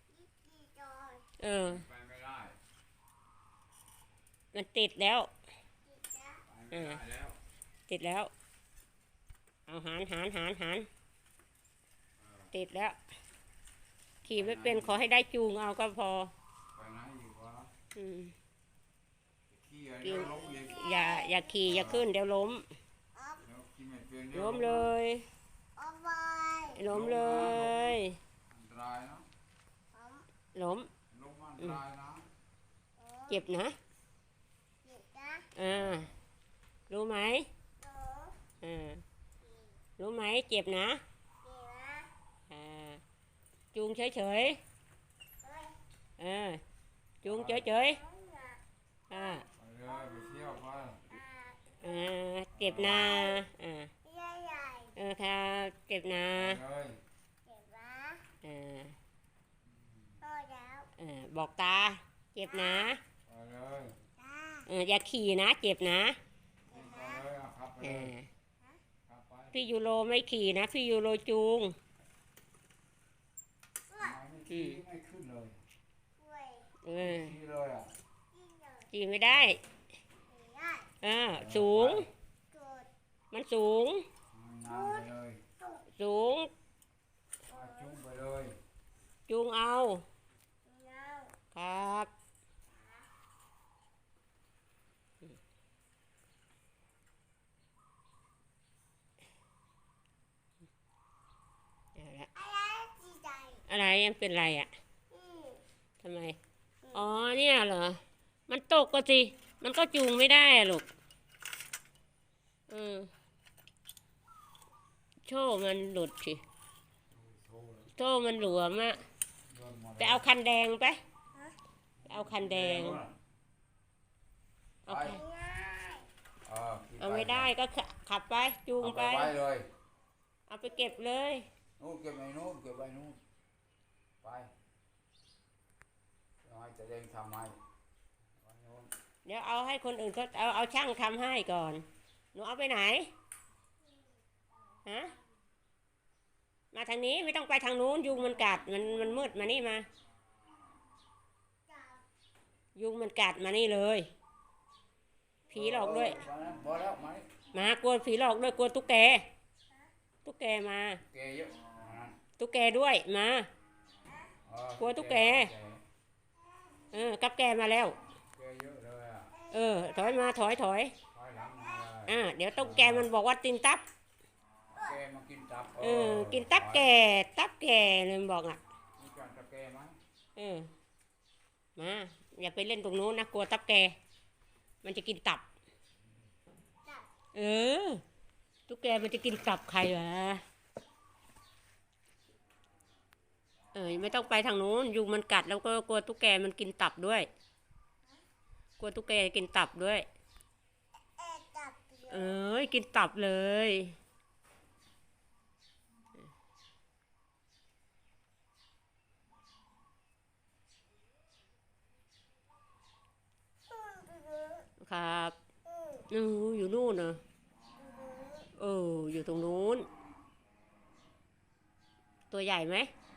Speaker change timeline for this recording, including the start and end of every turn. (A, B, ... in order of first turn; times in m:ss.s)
0:00.1-0:01.3 A
0:01.4-0:01.8 B
0:01.6-0:02.6 C
0:04.5-0:05.3 B
0:05.8-0:06.4 A
0:06.4-0:07.4 C
0:06.7-0:07.0 B
0:07.9-0:08.3 B
0:09.7-0:10.9 B
0:12.2-0:12.5 C
0:12.5-0:13.0 B
0:14.2-0:16.3 B
0:14.3-0:15.0 C
0:16.7-0:17.7 C
0:17.9-0:18.3 B
0:19.5-0:21.0 C
0:20.0-0:22.6 B
0:20.4-0:21.6 A
0:21.6-0:22.0 C
0:23.1-0:23.4 A
0:23.4-0:24.9 C
0:24.3-0:25.3 B
0:25.8-0:26.8 A
0:26.7-0:28.2 B
0:26.8-0:29.2 C
0:29.9-0:30.3 A
0:30.5-0:30.9 B
0:31.1-0:32.2 C
0:33.0-0:33.4 A
0:33.3-0:33.8 B
0:34.8-0:35.5 A
0:35.6-0:36.1 B
0:35.6-0:36.1 C
0:36.9-0:37.5 B
0:37.8-0:38.4 A
0:38.6-0:39.0 B
0:40.0-0:41.0 B
0:41.4-0:42.1 A
0:42.5-0:43.0 B
0:43.7-0:44.6 B
0:45.4-0:45.8 A
0:46.2-0:46.6 B
0:47.2-0:48.0 B
0:47.2-0:47.7 C
0:47.9-0:48.6 A
0:49.1-0:49.4 B
0:49.5-0:51.2 C
0:51.1-0:51.9 A
0:51.8-0:53.9 B
0:52.5-0:53.2 C
0:52.9-0:53.4 A
0:54.0-0:54.9 A
0:54.9-0:56.6 B
0:56.3-0:57.0 C
0:57.4-0:58.2 A
0:58.4-0:59.0 B
0:59.6-1:00.2 C
1:00.2-1:00.9 A
1:01.0-1:03.0 B
1:02.5-1:02.9 A
1:03.3-1:04.0 C
1:04.2-1:04.6 A
1:04.6-1:06.2 B
1:06.7-1:08.1 C
1:06.7-1:07.2 A
1:07.8-1:08.3 B
1:09.1-1:09.6 C
1:09.5-1:11.8 B
1:13.9-1:14.2 A
1:13.9-1:15.6 C
1:14.5-1:14.8 B
1:16.2-1:16.7 A
1:16.8-1:17.3 B
1:17.0-1:17.9 C
1:18.3-1:18.9 A
1:18.9-1:19.6 B
1:20.3-1:20.9 A
1:21.0-1:22.1 B
1:21.3-1:22.1 C
1:22.5-1:22.9 A
1:23.3-1:24.0 B
1:24.3-1:25.4 C
1:24.6-1:25.0 A
1:26.0-1:26.5 B
1:27.5-1:28.6 C
1:27.5-1:28.0 A
1:29.3-1:30.0 B
1:30.6-1:31.3 A
1:31.5-1:32.1 B
1:32.7-1:33.0 A
1:42.0-1:42.3 B
1:42.3-1:43.6 A
1:43.6-1:44.7 B
1:45.1-1:45.6 A
1:46.0-1:46.4 B
1:46.9-1:50.9 B
1:52.7-1:53.1 B
1:55.2-1:56.4 B
1:57.1-1:57.9 C
1:57.9-1:59.0 B
1:59.4-2:00.2 C
2:00.0-2:01.0 B
2:02.0-2:03.0 B
2:02.1-2:03.2 C
2:04.9-2:05.2 C
2:04.9-2:05.2 B
2:05.1-2:06.0 A
2:06.4-2:07.5 C
2:07.0-2:09.3 B
2:08.8-2:09.7 C
2:10.5-2:11.4 B
2:11.8-2:13.2 C
2:14.2-2:14.5 C
2:16.4-2:17.6 C
2:18.4-2:18.9 C
2:19.2-2:23.1 B
2:24.8-2:25.1 B
2:26.7-2:29.9 B
2:31.7-2:32.0 A
2:32.8-2:34.1 B
2:35.5-2:36.2 B
2:35.5-2:37.3 C
2:37.5-2:39.3 B
2:40.2-2:41.0 B
2:41.0-2:42.2 C
2:42.4-2:43.5 B
2:44.4-2:45.8 C
2:44.8-2:45.5 B
2:46.9-2:48.0 B
2:48.3-2:49.3 C
2:49.4-2:50.3 A
2:49.5-2:50.9 B
2:51.1-2:53.1 C
2:52.0-2:53.8 B
2:54.7-2:56.9 C
2:55.8-2:58.6 B
2:59.0-3:00.0 C
3:00.4-3:00.7 B
3:01.8-3:04.0 B
3:04.8-3:05.4 B
3:07.3-3:08.0 B
3:08.7-3:10.4 B
3:13.7-3:17.3 B
3:18.8-3:20.0 B
3:21.2-3:22.3 A
3:22.1-3:24.0 B
3:33.7-3:34.7 A
3:34.8-3:35.4 B
3:35.7-3:36.0 A
3:36.1-3:37.2 B
3:37.8-3:38.5 A
3:38.5-3:39.9 B
3:42.3-3:42.9 B